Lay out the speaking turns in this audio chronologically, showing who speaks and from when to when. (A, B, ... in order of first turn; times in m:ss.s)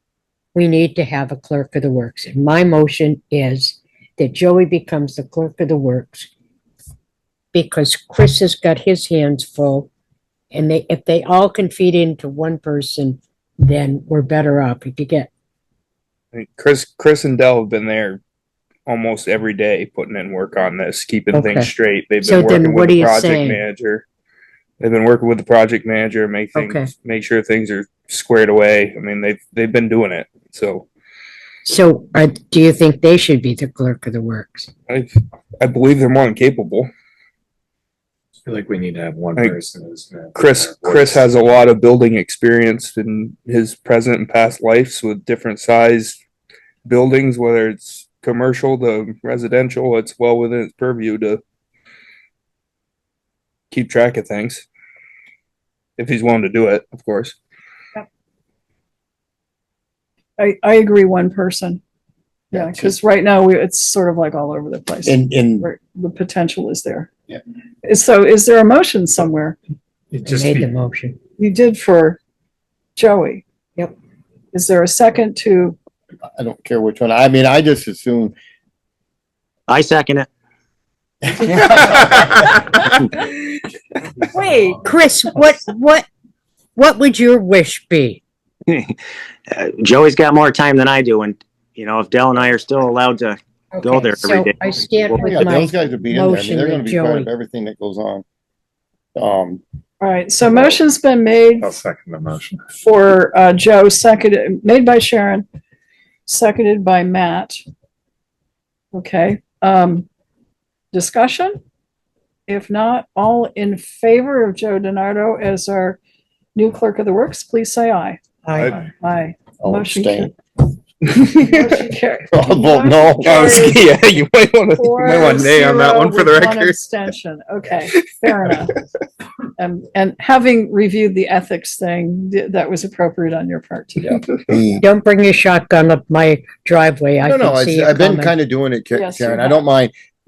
0:00.5-0:06.3 A
0:07.5-0:09.9 A
0:10.5-0:15.3 A
0:16.3-0:18.2 B
0:18.8-0:24.0 B
0:21.3-0:21.7 A
0:22.2-0:23.6 A
0:24.8-0:30.9 B
0:26.5-0:26.9 A
0:31.6-0:34.7 A
0:34.9-0:36.9 B
0:38.4-0:41.3 C
0:40.3-0:46.2 B
0:46.8-0:51.4 B
0:53.7-0:54.6 B
0:56.0-0:57.4 B
1:00.4-1:01.8 D
1:02.5-1:02.9 E
1:02.5-1:07.1 D
1:05.0-1:05.7 E
1:07.8-1:09.6 D
1:10.1-1:10.7 C
1:10.2-1:11.2 A
1:11.4-1:12.2 D
1:13.0-1:13.4 D
1:14.5-1:15.8 D
1:16.4-1:18.3 E
1:19.7-1:20.3 F
1:21.4-1:22.3 E
1:24.3-1:24.8 D
1:24.8-1:26.0 A
1:26.8-1:28.2 A
1:28.7-1:28.9 F
1:29.5-1:34.5 F
1:33.7-1:37.3 A
1:35.2-1:38.2 E
1:39.2-1:39.6 E
1:40.0-1:41.7 D
1:40.4-1:40.7 E
1:41.6-1:42.7 C
1:42.8-1:45.4 D
1:46.2-1:47.6 D
1:48.9-1:50.1 D
1:50.9-1:51.6 D
1:52.5-1:56.0 D
1:56.5-2:00.3 D
1:58.5-1:58.7 A
1:59.6-2:00.3 E
2:01.1-2:01.8 B
2:01.4-2:04.1 D
2:02.3-2:03.7 E
2:03.2-2:06.8 B
2:04.7-2:08.7 D
2:08.0-2:08.6 B
2:09.6-2:14.2 D
2:14.4-2:14.8 E
2:14.8-2:18.3 A
2:17.2-2:19.9 E
2:18.9-2:19.6 D